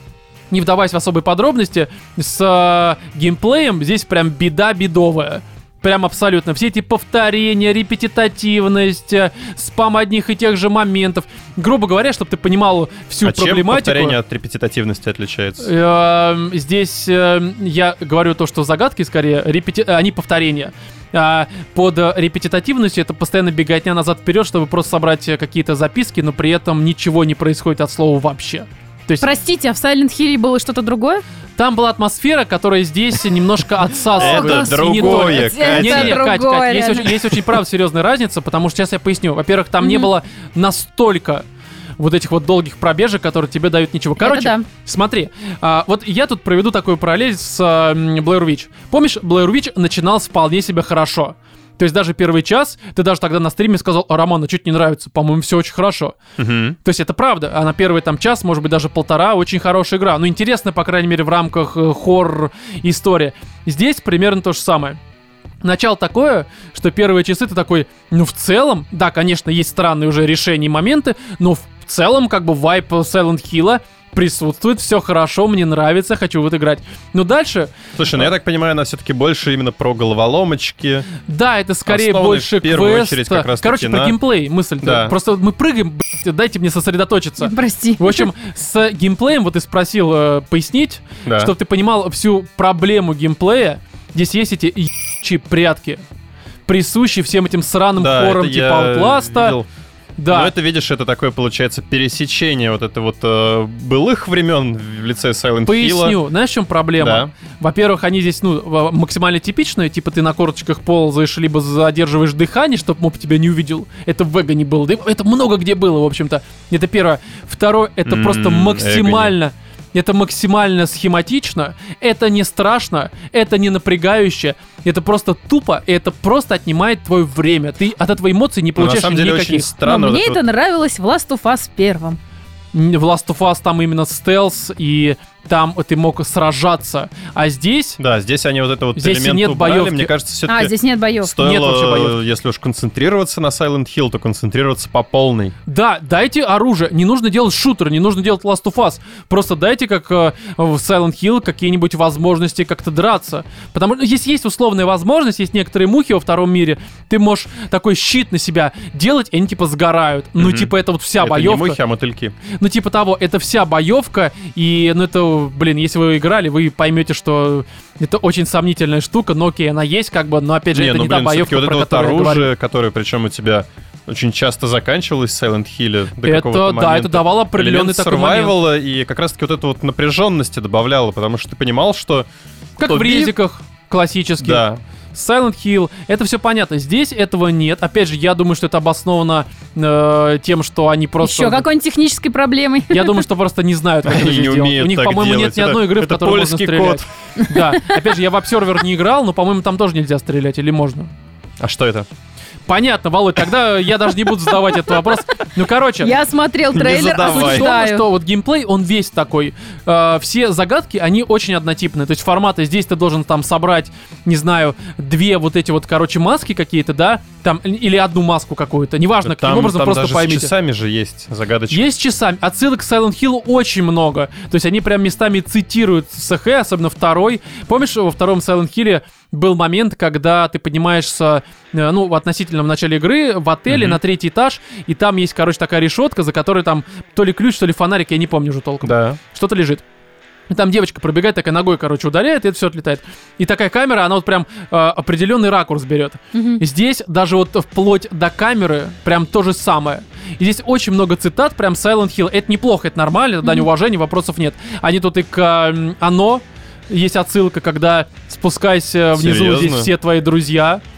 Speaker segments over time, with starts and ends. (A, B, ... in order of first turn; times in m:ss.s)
0:00.5-0:14.2 A
0:13.2-0:15.7 B
0:15.6-0:29.3 A
0:29.2-0:31.2 C
0:31.6-0:41.4 A
0:34.1-0:36.2 B
0:34.1-0:37.4 C
0:39.8-0:40.1 C
0:42.0-0:56.2 A
0:44.2-0:44.6 C
0:56.4-0:56.8 B
0:56.8-1:05.0 A
1:05.6-1:18.3 A
1:18.0-1:21.0 B
1:21.3-1:36.0 A
1:21.9-1:24.2 B
1:24.8-1:25.1 B
1:27.4-1:28.3 C
1:31.2-1:31.5 B
1:36.7-1:39.6 A
1:38.0-1:39.6 B
1:40.2-1:40.5 A
1:40.3-1:46.2 B
1:45.6-2:09.7 A
1:47.0-1:47.3 B
1:58.0-1:59.3 B
2:08.8-2:10.4 B
2:09.8-2:12.2 C
2:12.7-2:18.0 A
2:18.0-2:25.5 B
2:19.0-2:20.1 A
2:20.5-2:21.3 C
2:21.3-2:22.2 A
2:25.7-2:41.8 A
2:40.4-2:42.4 B
2:42.4-2:52.5 A
2:50.7-3:02.3 B
2:56.2-2:58.6 A
3:02.8-3:11.6 A
3:02.8-3:03.3 B
3:04.4-3:04.8 B
3:11.2-3:13.2 C
3:12.9-3:21.1 A
3:14.0-3:17.0 B
3:17.4-3:17.8 C
3:21.6-3:22.1 B
3:22.7-3:26.1 A
3:26.0-3:28.0 C
3:26.7-3:27.7 B
3:27.2-3:40.5 A
3:39.2-3:41.8 B
3:41.7-3:59.8 A
3:53.7-3:54.0 B
3:58.8-3:59.2 B
4:00.5-4:20.8 A
4:06.3-4:06.6 C
4:19.1-4:19.9 B